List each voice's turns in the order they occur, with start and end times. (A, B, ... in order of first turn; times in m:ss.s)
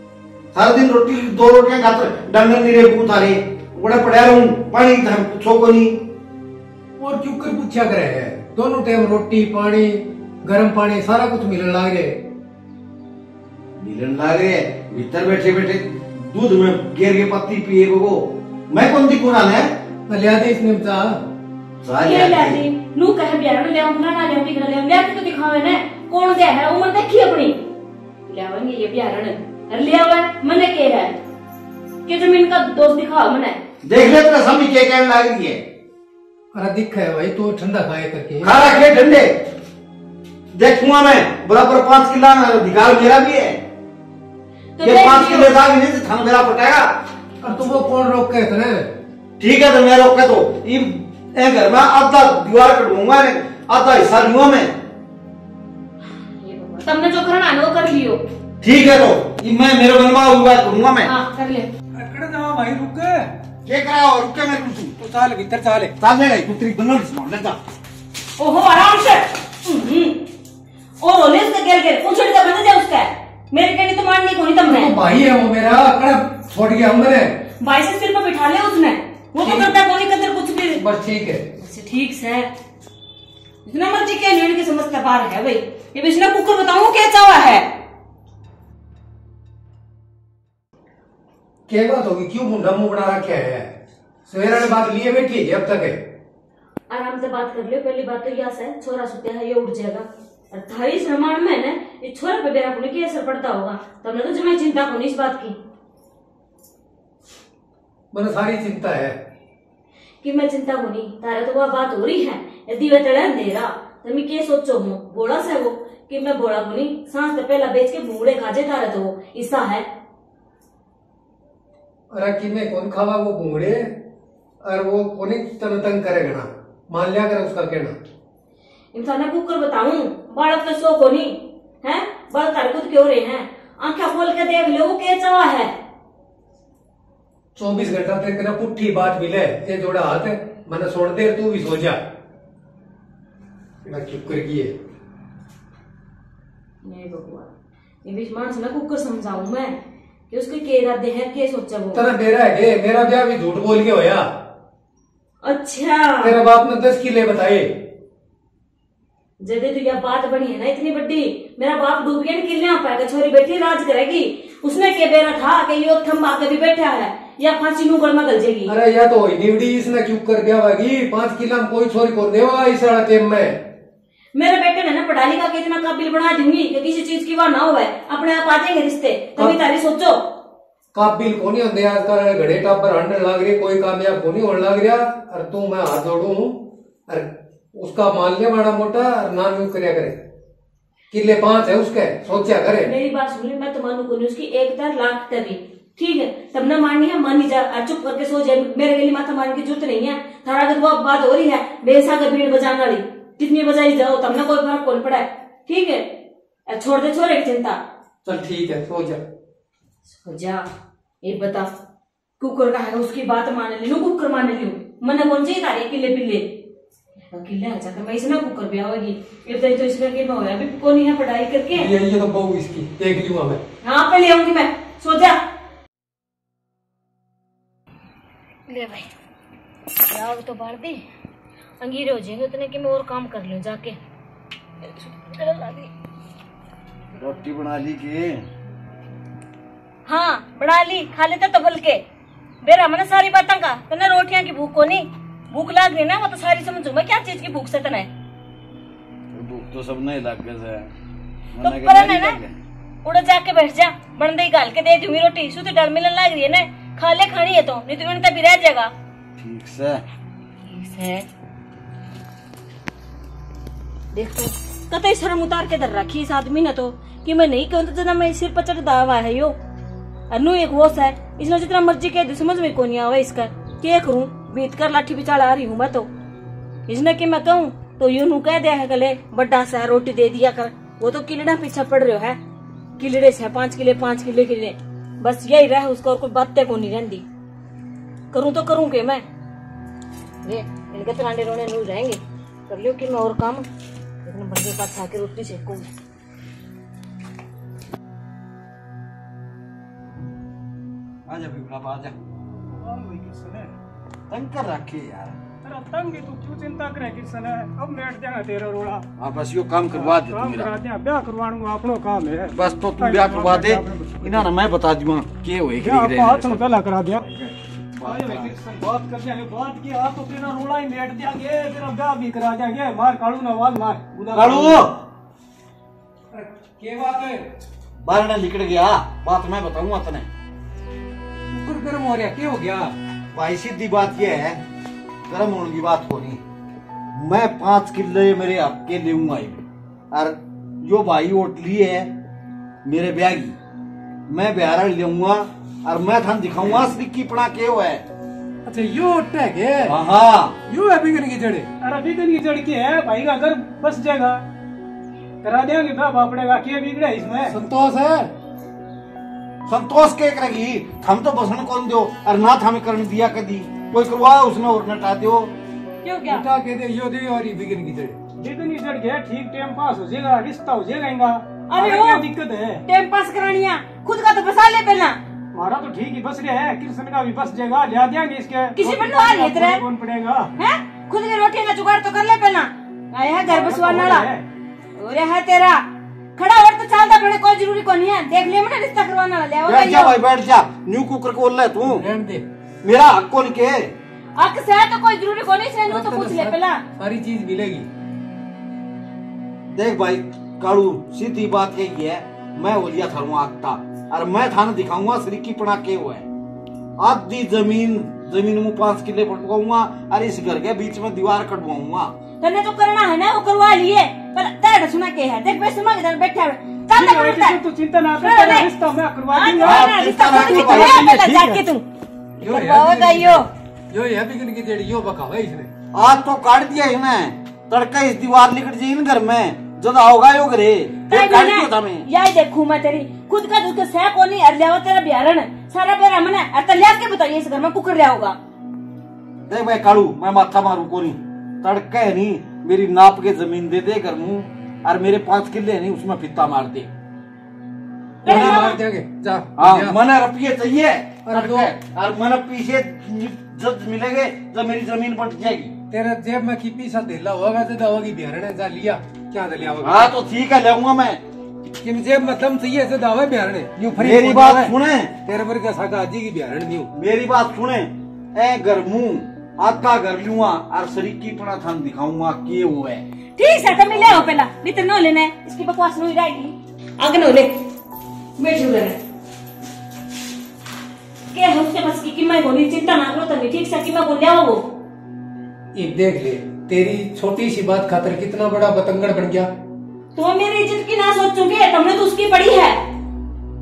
0:00.5-0:06.0 A
0:07.0-0:12.2 B
0:13.8-0:19.7 A
0:20.1-0:21.2 B
0:21.8-0:22.6 A
0:22.0-0:27.6 C
0:28.3-0:31.2 C
0:32.0-0:33.6 C
0:33.8-0:35.6 A
0:36.5-0:38.5 B
0:38.4-0:39.3 A
0:40.5-0:43.6 A
0:44.8-0:45.5 C
0:44.8-0:46.9 A
0:47.4-0:48.9 B
0:49.4-0:54.7 A
0:56.3-0:58.2 C
0:58.6-1:01.1 A
1:01.0-1:01.7 C
1:01.9-1:03.3 B
1:03.6-1:05.0 A
1:05.0-1:05.9 B
1:06.0-1:07.6 A
1:08.4-1:10.2 C
1:11.0-1:14.9 C
1:14.7-1:17.4 B
1:17.6-1:20.8 C
1:19.4-1:19.7 B
1:20.8-1:21.4 B
1:21.6-1:22.5 C
1:23.6-1:27.7 C
1:31.7-1:33.7 B
1:34.3-1:36.0 B
1:36.9-1:45.6 C
1:48.1-1:49.2 B
1:50.2-1:59.8 C
2:02.1-2:03.9 B
2:04.6-2:07.9 B
2:08.9-2:15.7 C
2:17.6-2:22.0 B
2:23.9-2:24.7 B
2:26.8-2:27.5 C
2:28.0-2:29.8 C
2:30.3-2:32.0 C
2:31.9-2:34.2 B
2:35.4-2:36.3 C
2:36.2-2:37.7 B
2:39.4-2:48.7 C
2:48.7-2:53.6 B
2:54.3-3:00.2 C
3:00.9-3:10.2 B
3:11.1-3:12.9 B
3:12.8-3:26.1 C
3:26.7-3:27.8 C
3:28.2-3:29.2 B
3:30.2-3:30.6 C
3:31.2-3:31.7 C
3:32.4-3:36.5 C
3:37.3-3:41.9 C
3:41.7-3:43.6 B
3:43.8-3:45.4 C
3:48.7-3:49.1 C
3:50.1-3:51.0 C
3:51.8-3:54.0 C
3:54.8-3:55.9 C
3:57.2-3:58.4 A
4:00.0-4:02.0 C
4:02.6-4:08.1 C
4:09.3-4:10.9 A
4:11.6-4:12.6 A
4:11.6-4:12.4 C
4:13.0-4:18.9 C
4:19.4-4:20.0 A
4:20.6-4:21.3 C
4:24.1-4:29.6 C
4:30.3-4:36.1 C
4:36.9-4:42.4 C
4:43.0-4:47.2 C
4:48.3-4:49.2 C
4:50.4-4:53.7 C
4:54.2-4:55.9 C
5:01.3-5:02.1 A
5:02.7-5:03.7 D
5:04.3-5:05.4 A
5:05.6-5:09.1 D
5:09.2-5:10.7 A
5:09.9-5:14.5 D
5:12.5-5:16.7 A
5:15.8-5:17.2 D
5:17.2-5:18.6 A
5:18.0-5:24.8 D
5:24.3-5:25.0 A
5:26.3-5:27.4 B
5:28.0-5:30.3 A
5:31.5-5:32.9 B
5:33.3-5:34.6 A
5:35.3-5:36.4 A
5:37.1-5:42.1 A
5:42.8-5:43.6 A
5:44.3-5:48.0 A
5:48.6-5:50.0 B
5:49.8-5:50.6 A
5:50.7-5:51.7 B
5:51.8-5:54.4 D
5:55.4-5:57.6 D
5:57.5-5:58.3 B
5:59.6-6:05.5 A
6:06.0-6:06.4 C
6:06.3-6:08.2 B
6:08.4-6:12.8 D
6:11.7-6:12.2 C
6:12.8-6:15.2 C
6:15.5-6:20.5 D
6:18.8-6:19.8 C
6:20.6-6:24.3 C
6:23.4-6:24.4 D
6:24.9-6:30.2 C
6:29.6-6:32.0 A
6:31.8-6:32.4 B
6:32.8-6:33.9 A
6:34.4-6:36.8 C
6:35.9-6:37.9 B
6:39.7-6:46.2 A
6:47.0-6:52.1 A
6:52.4-6:57.6 C
6:56.9-7:01.6 D
6:58.2-6:58.7 C
6:59.3-7:01.8 C
6:59.6-7:01.6 A
7:02.4-7:03.5 C
7:02.4-7:05.7 B
7:05.9-7:12.0 A
7:11.1-7:18.4 C
7:19.5-7:26.9 A
7:28.2-7:28.8 C
7:28.2-7:30.0 B
7:28.3-7:28.7 A
7:29.6-7:35.7 A
7:31.2-7:31.7 B
7:35.9-7:40.1 B
7:39.8-7:41.2 A
7:41.8-7:44.7 B
7:44.0-7:45.2 A
7:45.2-7:46.9 B
7:46.9-7:53.0 A
7:53.4-7:57.5 C
7:58.4-7:59.0 C
8:01.3-8:04.6 C
8:05.7-8:09.5 B
8:10.1-8:12.8 C